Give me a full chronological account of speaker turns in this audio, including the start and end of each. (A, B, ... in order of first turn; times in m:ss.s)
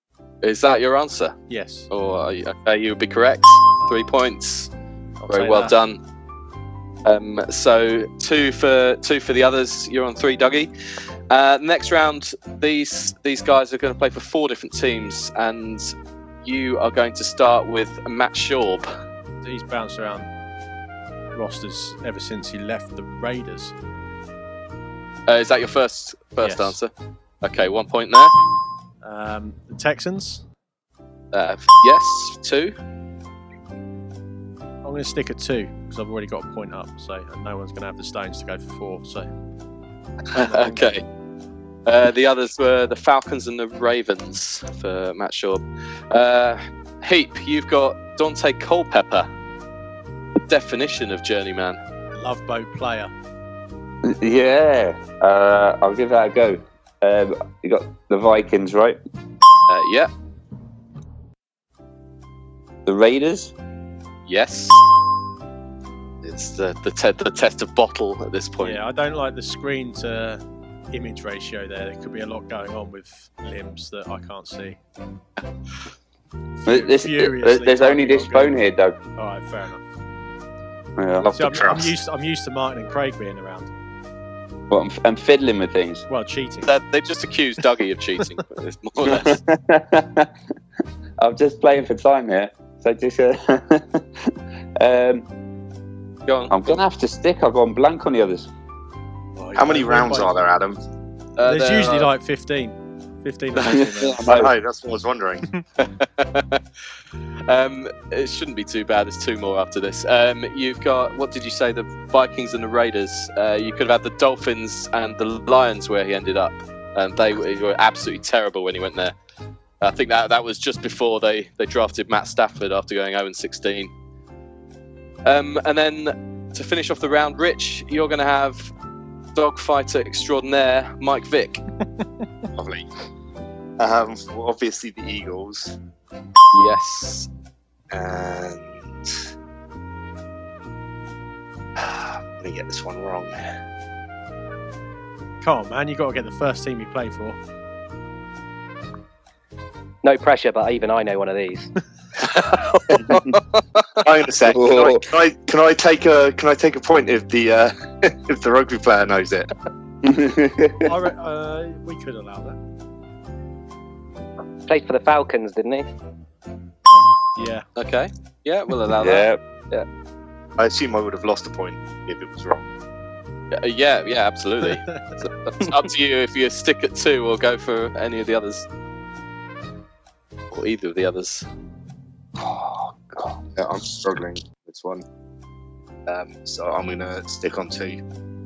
0:00.4-0:01.4 A
0:01.5-0:01.9 B
0:01.9-0:04.7 A
0:05.2-0:05.8 B
0:05.3-0:06.0 A
0:07.0-0:10.7 A
0:11.3-0:18.9 A
0:19.4-0:20.3 B
0:21.3-0:23.7 B
0:25.3-0:26.9 A
0:26.4-0:26.8 B
0:27.4-0:28.3 A
0:29.0-0:30.4 B
0:31.3-0:32.7 A
0:34.8-0:39.3 B
0:40.3-0:40.9 B
0:40.3-0:41.0 A
0:41.8-0:49.3 A
0:50.5-0:51.8 A
0:52.2-0:53.1 B
0:54.0-0:59.0 C
0:59.7-1:00.1 A
1:02.8-1:03.5 C
1:04.3-1:04.8 A
1:06.2-1:08.8 A
1:08.6-1:14.8 B
1:16.6-1:18.6 B
1:16.6-1:19.0 C
1:19.2-1:19.8 B
1:21.0-1:21.3 C
1:21.2-1:21.9 D
1:21.3-1:23.7 B
1:24.7-1:26.0 C
1:26.1-1:26.7 B
1:26.6-1:29.4 A
1:29.0-1:30.3 C
1:31.2-1:35.3 C
1:36.2-1:36.8 A
1:36.5-1:38.5 C
1:39.4-1:40.4 B
1:39.6-1:40.8 D
1:41.4-1:42.1 A
1:41.4-1:44.4 B
1:43.6-1:44.5 C
1:44.3-1:45.4 D
1:45.8-1:46.6 A
1:47.5-1:59.1 A
1:59.8-2:03.9 A
2:05.2-2:08.7 A
2:09.3-2:11.6 A
2:12.6-2:12.9 D
2:13.8-2:15.8 D
2:16.5-2:17.3 A
2:17.9-2:19.1 D
2:21.8-2:23.5 D
2:25.4-2:27.4 B
2:30.0-2:31.7 E
2:32.2-2:34.0 A
2:34.0-2:39.5 D
2:34.4-2:35.0 C
2:40.0-2:40.9 C
2:40.8-2:42.6 B
2:44.7-2:45.9 E
2:47.4-2:47.6 B
2:47.8-2:49.8 A
2:48.9-2:49.4 C
2:50.6-2:52.6 D
2:53.5-2:58.7 A
2:54.6-2:55.1 B
3:00.5-3:01.4 A
3:02.4-3:03.4 C
3:03.6-3:05.0 D
3:06.1-3:08.0 D